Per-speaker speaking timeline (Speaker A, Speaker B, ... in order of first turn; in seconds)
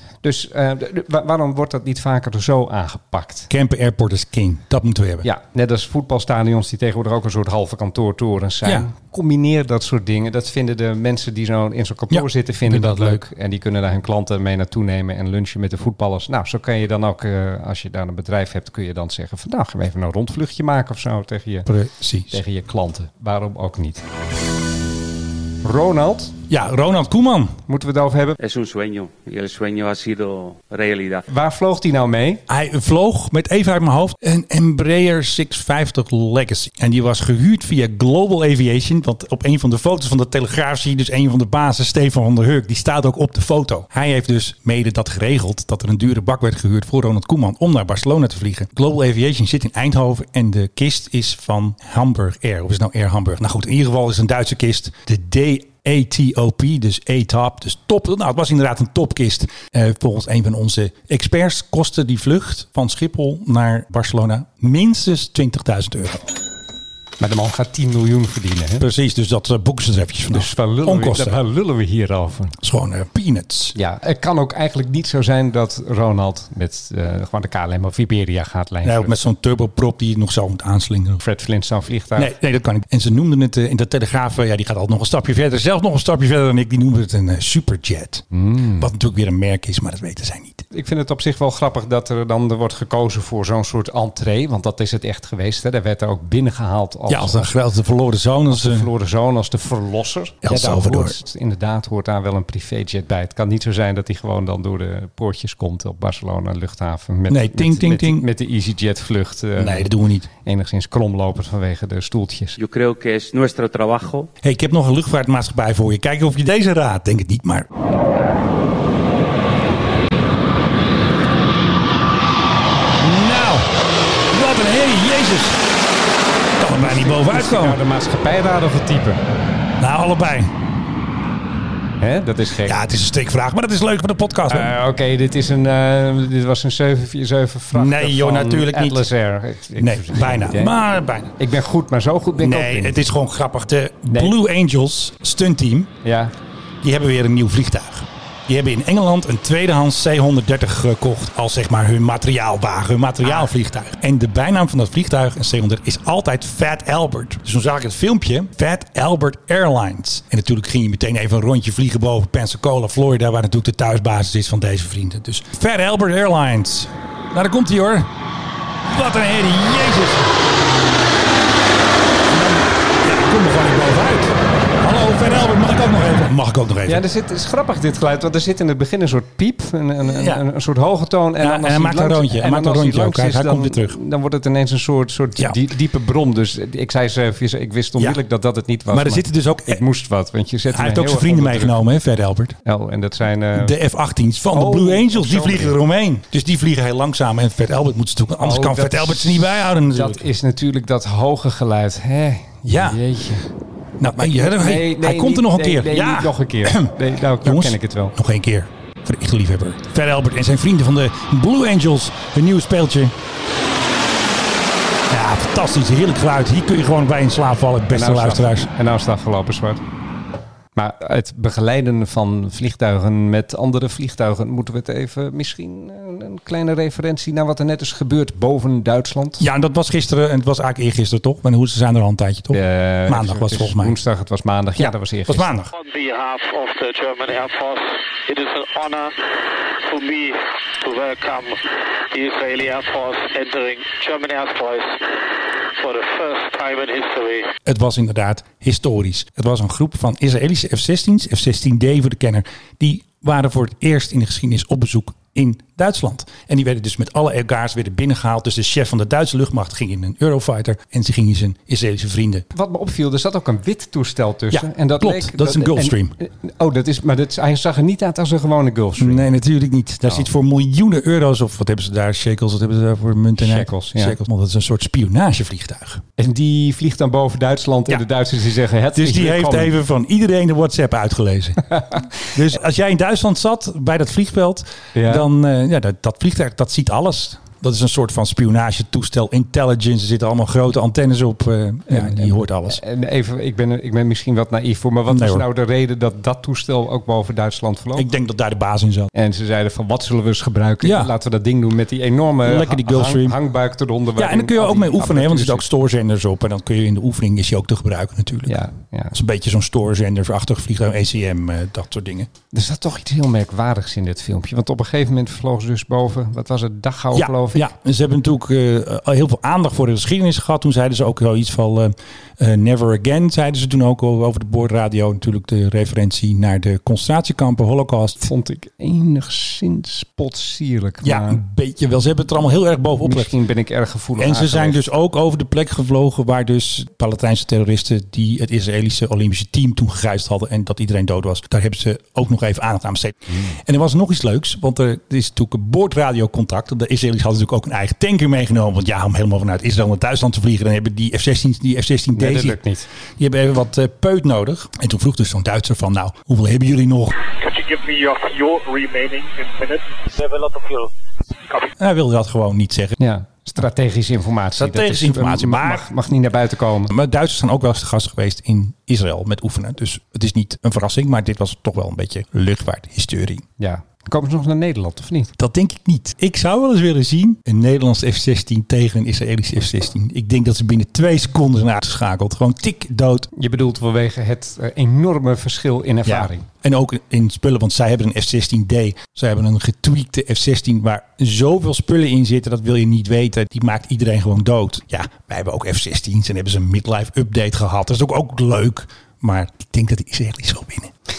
Speaker A: 0.2-3.5, 5.2-21.7, 22.3-24.0, 25.6-26.3, 27.7-28.4, 31.3-32.4, 67.2-68.8, 70.3-72.6, 73.7-79.1, 81.2-82.3, 88.3-88.8, 90.7-97.5, 98.5-109.9, 110.4-112.6, 126.7-129.2, 132.0-132.8, 134.5-140.7, 141.4-143.0, 144.1-144.3, 146.0-146.3, 176.8-191.8, 192.6-193.7, 194.5-195.8, 198.4-203.5, 204.0-208.2, 217.9-219.8, 220.8-229.4, 232.5-235.5, 262.5-269.3, 273.4-274.2, 276.2-279.7, 284.9-285.3, 291.9-298.1, 299.1-305.7, 308.5-309.1, 312.5-317.7, 328.2-331.4, 333.0-334.8, 352.1-352.9, 363.0-366.9, 373.6-375.3, 383.3-386.4
Speaker B: 3.5-5.3, 12.1-13.2, 21.6-22.4, 26.5-27.6, 32.5-66.3, 68.8-71.4, 72.6-73.7, 78.8-81.2, 82.2-88.2, 88.8-90.6, 97.1-98.9, 100.4-101.2, 107.3-108.2, 109.6-110.3, 114.4-117.7, 123.0-123.7, 124.3-125.6, 126.6-127.8, 129.8-130.5, 132.6-134.7, 137.7-139.1, 139.8-141.3, 142.4-145.9, 146.8-168.1, 168.8-170.4, 172.3-177.0, 180.0-180.4, 181.4-183.9, 188.9-189.8, 190.7-192.6, 193.5-200.2, 202.7-203.0, 204.0-213.1, 215.1-218.7, 229.4-234.0, 234.8-235.7, 247.6-262.5, 264.5-266.1, 269.0-276.0, 278.9-281.6, 282.3-292.8, 295.1-295.4, 297.9-299.1, 300.8-301.1, 302.4-303.4, 304.1-308.6, 309.1-312.3, 317.1-328.3, 331.0-333.3, 334.2-352.6, 353.2-357.1, 361.8-363.0, 364.6-365.9, 366.9-373.4, 375.4-383.3, 386.0-400.9
Speaker C: 28.4-31.2, 112.6-114.3
Speaker D: 235.7-239.1, 239.8-245.1, 245.7-247.5, 357.3-360.9